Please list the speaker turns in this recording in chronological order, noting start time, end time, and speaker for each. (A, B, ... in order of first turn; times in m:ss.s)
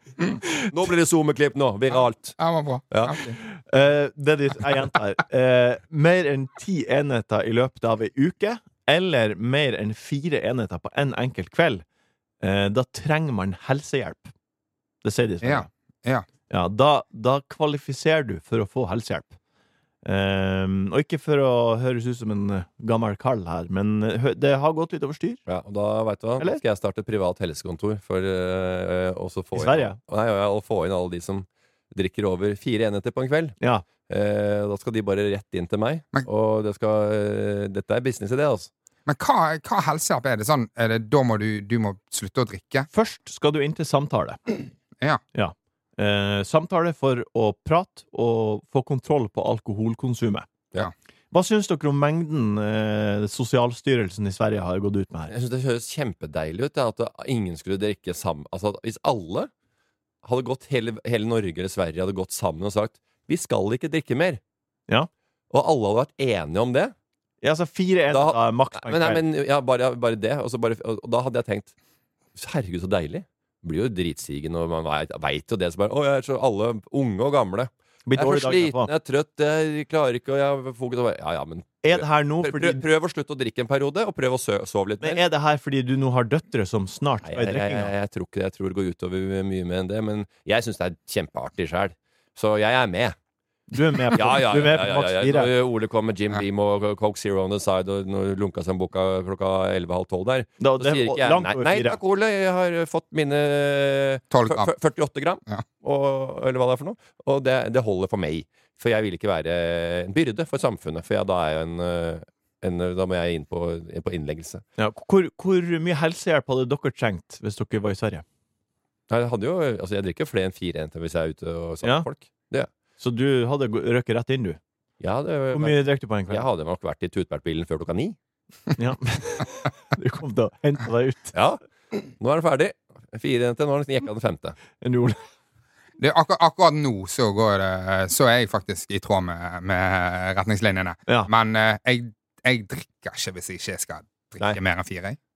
0:00.6-0:02.4 A
0:02.4-0:03.4 B
0:02.9-0:03.2 A
0:03.5-0:11.8 C
0:12.4-0:14.3 C
0:15.0-0:15.7 C
0:15.4-0:16.3 B
0:16.5-0:19.4 C
0:20.0-0:25.4 C
0:25.5-0:38.7 A
0:29.6-0:30.0 C
0:39.1-0:42.9 B
0:42.9-0:44.4 C
0:45.3-0:50.5 C
0:51.3-0:55.3 C
0:55.3-0:59.5 A
1:00.2-1:04.4 A
1:05.5-1:06.9 A
1:07.4-1:09.2 C
1:08.1-1:11.7 A
1:12.4-1:25.2 A
1:18.1-1:18.9 C
1:21.8-1:22.8 C
1:25.0-1:27.9 C
1:27.2-1:33.2 A
1:33.7-1:35.5 C
1:34.1-1:54.6 A
1:40.6-1:42.0 C
1:44.3-1:44.7 B
1:54.8-1:58.2 C
1:59.1-2:02.7 A
2:03.0-2:04.6 C
2:05.0-2:08.2 A
2:05.5-2:06.5 C
2:08.8-2:11.4 C
2:11.3-2:11.6 A
2:12.2-2:14.6 A
2:14.8-2:15.2 C
2:16.0-2:25.2 B